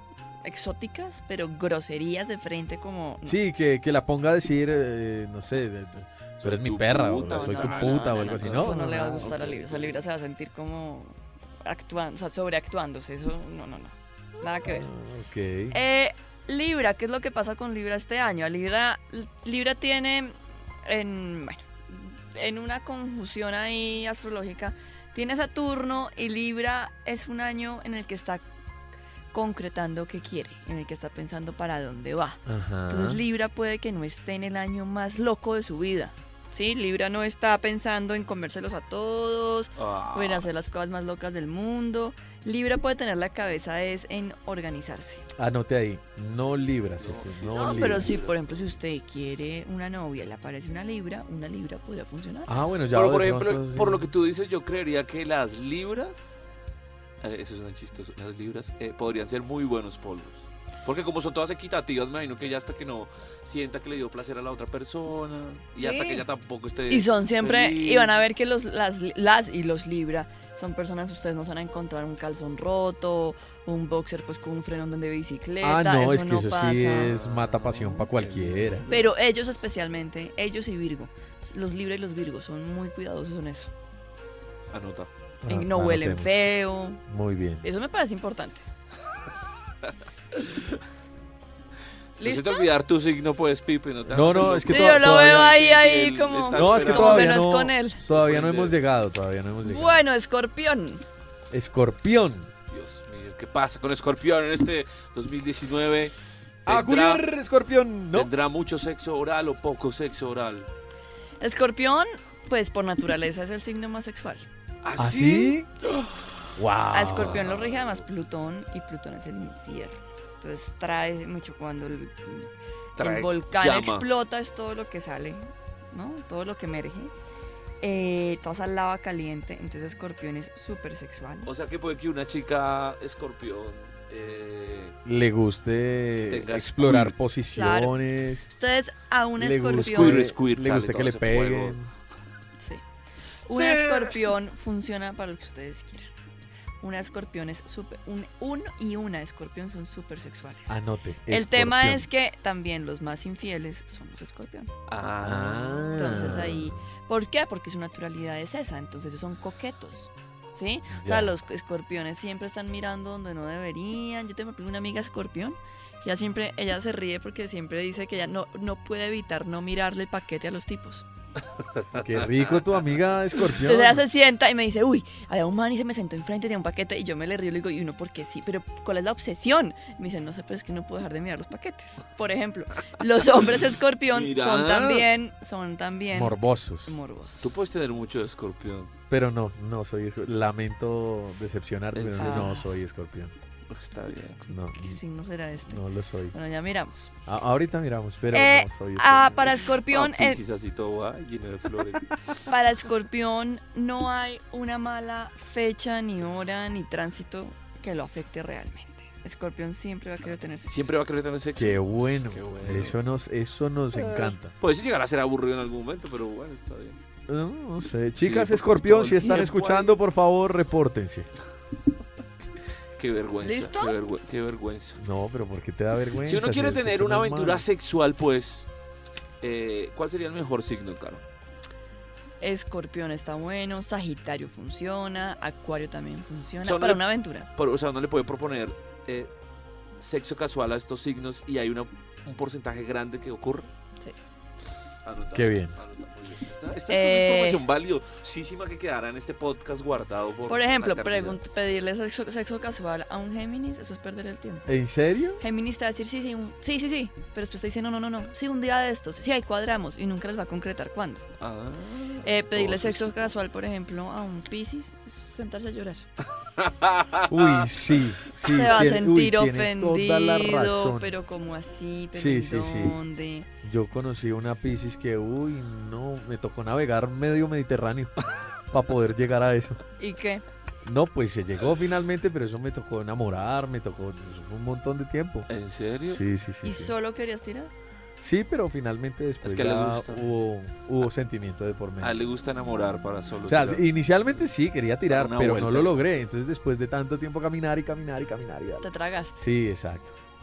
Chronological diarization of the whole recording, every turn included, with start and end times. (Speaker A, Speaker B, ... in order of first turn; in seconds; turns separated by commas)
Speaker A: 0.4-3.4, Speaker B: 3.2-9.4, Speaker C: 6.4-10.0, Speaker A: 7.2-14.9, Speaker B: 14.6-15.8, Speaker A: 15.7-28.4, Speaker A: 29.3-45.3, Speaker B: 32.5-33.2, Speaker C: 39.8-40.5, Speaker B: 45.4-48.2, Speaker C: 47.0-48.7, Speaker A: 47.5-52.5, Speaker B: 52.5-54.1, Speaker C: 52.9-56.3, Speaker C: 57.2-68.2, Speaker A: 65.8-66.2, Speaker A: 66.9-77.2, Speaker B: 75.6-78.9, Speaker C: 76.9-79.1, Speaker A: 78.9-83.7, Speaker C: 84.7-85.1, Speaker B: 85.4-86.5, Speaker A: 85.5-87.0, Speaker B: 87.1-87.6, Speaker A: 87.6-88.6, Speaker C: 90.3-90.8, Speaker A: 92.2-92.7, Speaker C: 92.2-97.4, Speaker B: 94.1-95.5, Speaker A: 94.7-98.0, Speaker B: 96.5-100.0, Speaker C: 98.0-98.8, Speaker A: 99.6-101.0, Speaker B: 101.5-102.5, Speaker C: 102.7-106.1, Speaker C: 106.7-107.2, Speaker B: 106.7-108.3, Speaker C: 108.1-110.7, Speaker A: 111.4-114.5, Speaker C: 114.8-116.3, Speaker B: 115.0-115.7, Speaker B: 116.5-117.5, Speaker A: 116.9-127.1, Speaker C: 117.2-118.0, Speaker C: 123.0-124.1, Speaker A: 127.8-131.5, Speaker C: 131.4-134.9, Speaker B: 135.0-138.5, Speaker C: 136.3-137.2, Speaker A: 137.5-140.2, Speaker B: 139.4-141.9, Speaker C: 139.8-141.8, Speaker A: 143.4-146.1, Speaker C: 143.5-144.2, Speaker A: 146.8-150.8, Speaker B: 150.7-152.1, Speaker A: 151.3-154.7, Speaker C: 154.9-156.0, Speaker B: 155.2-156.8, Speaker A: 155.9-171.1, Speaker B: 160.9-161.3, Speaker C: 171.7-172.9, Speaker B: 171.9-174.0, Speaker A: 173.6-187.6, Speaker C: 184.1-185.1, Speaker B: 186.1-187.0, Speaker C: 187.4-188.9, Speaker B: 189.1-193.3, Speaker C: 191.9-192.5, Speaker A: 192.2-192.7, Speaker C: 193.7-194.4, Speaker B: 194.5-195.0, Speaker A: 194.5-197.1, Speaker B: 195.7-196.3, Speaker B: 197.2-199.6, Speaker A: 198.3-200.4, Speaker C: 199.8-202.1, Speaker A: 202.4-210.9, Speaker C: 210.7-213.0, Speaker B: 211.6-214.5, Speaker C: 213.9-217.0, Speaker B: 217.3-221.3, Speaker C: 218.2-220.0, Speaker C: 223.0-225.0, Speaker A: 223.4-223.9, Speaker B: 225.0-227.6, Speaker C: 226.2-228.7, Speaker C: 229.4-231.2, Speaker A: 232.4-237.5, Speaker C: 236.6-239.3, Speaker C: 240.0-243.7, Speaker C: 245.0-251.4, Speaker B: 245.3-245.7, Speaker A: 246.9-247.6, Speaker A: 250.5-254.7, Speaker B: 254.7-255.4, Speaker A: 255.4-261.2, Speaker C: 261.4-263.3, Speaker A: 262.2-266.1, Speaker C: 266.6-267.7, Speaker B: 267.3-271.1, Speaker A: 268.4-273.5, Speaker B: 272.1-273.0, Speaker B: 273.6-278.1, Speaker B: 278.7-279.8, Speaker A: 280.0-280.4, Speaker B: 280.8-285.5, Speaker C: 285.5-286.2, Speaker B: 286.1-286.9, Speaker A: 286.6-287.7, Speaker B: 288.2-292.2, Speaker C: 289.4-290.2, Speaker C: 292.0-293.9, Speaker B: 293.4-298.9, Speaker C: 295.1-296.0, Speaker A: 298.8-299.4, Speaker B: 299.4-300.1